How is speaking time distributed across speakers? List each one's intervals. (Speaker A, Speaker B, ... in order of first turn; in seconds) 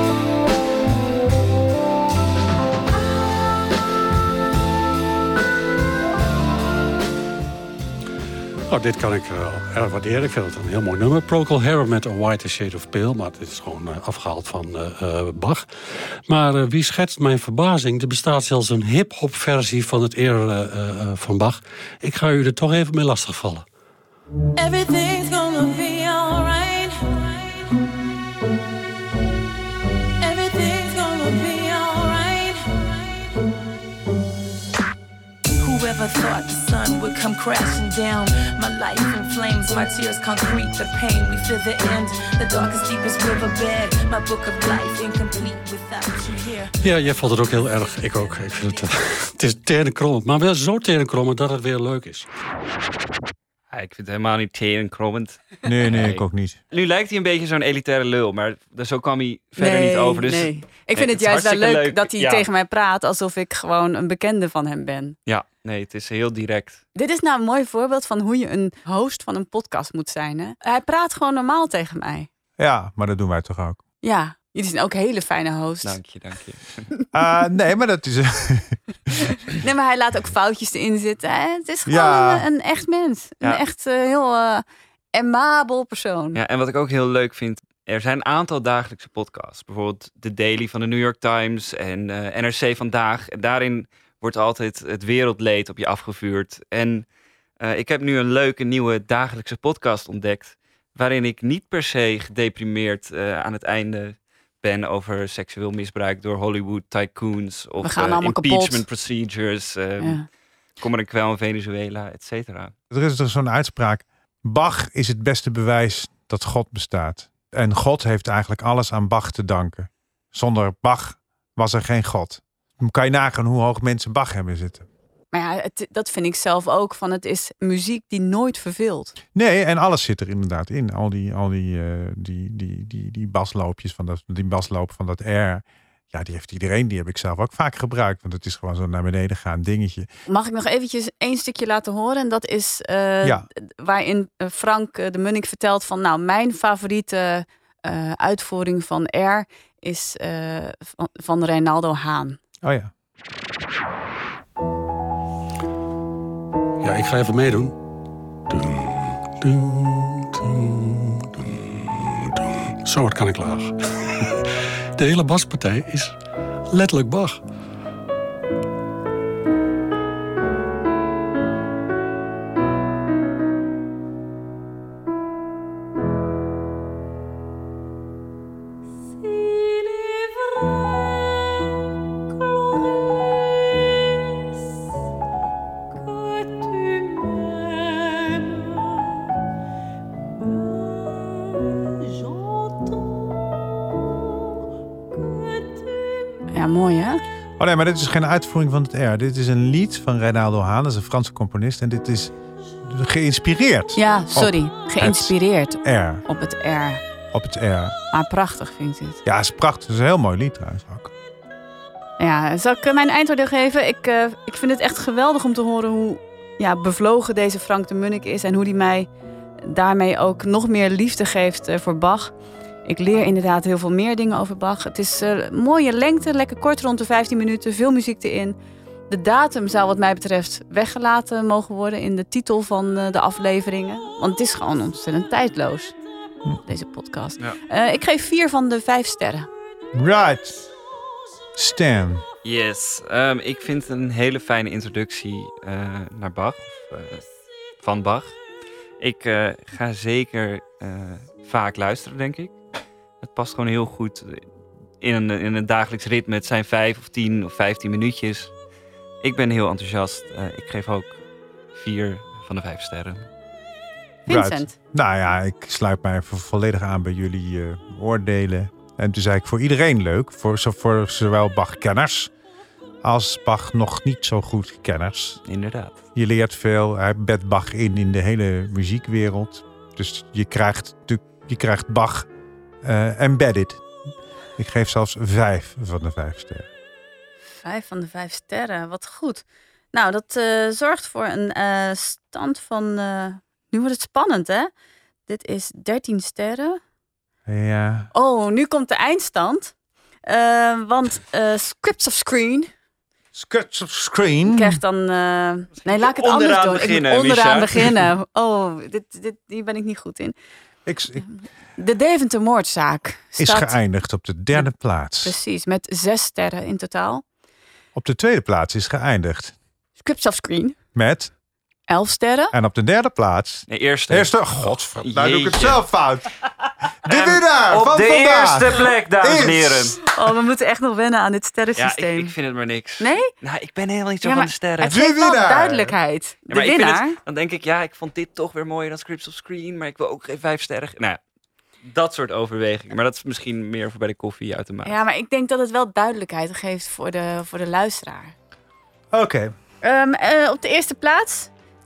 Speaker A: 8.7-23.6, 46.8-52.3, 156.8-157.8, 158.5-164.3, 165.0-166.2, 166.7-167.4
Speaker B: 24.6-27.6, 30.2-33.2, 35.6-46.7, 48.2-48.8
Speaker C: 53.7-62.5, 65.3-66.8, 75.8-76.9, 86.3-97.0, 97.6-110.2, 110.8-112.7, 242.4-247.2, 247.8-248.3, 249.0-252.6, 253.2-254.4, 255.0-258.5, 259.2-261.2, 261.8-263.3, 275.4-276.0, 305.9-308.1, 323.7-325.8, 327.0-330.0, 331.8-335.0, 336.5-341.2, 341.8-345.0
Speaker D: 55.6-56.6, 72.6-73.8, 77.1-79.3, 81.9-82.5, 112.9-124.8, 129.3-140.1, 152.6-152.9, 197.6-206.2, 207.3-207.9, 209.2-211.1, 239.9-240.6, 241.6-242.2, 264.3-272.3, 273.0-275.4, 276.1-282.3, 282.8-283.8, 284.6-286.7, 297.5-298.1, 303.3-304.8, 310.9-311.2, 313.4-315.4, 317.9-319.5, 320.9-321.3, 322.5-326.3, 327.0-330.0, 334.8-336.0, 349.1-349.5
Speaker E: 59.6-65.2, 67.0-72.3, 74.0-76.0, 79.5-86.4, 107.8-108.8, 110.0-110.3, 125.3-129.2, 140.3-152.4, 196.5-197.2, 203.9-207.0, 208.1-209.2, 212.2-219.1, 219.6-222.3, 222.8-228.6, 229.1-235.9, 236.6-239.5, 264.3-264.7, 287.6-294.7, 295.3-296.8, 298.1-299.7, 300.3-302.7, 304.5-310.3, 311.2-313.8, 315.2-317.2, 320.0-320.8, 321.9-322.5, 330.1-332.3, 333.0-333.3, 334.2-337.2, 344.9-348.3, 349.8-351.5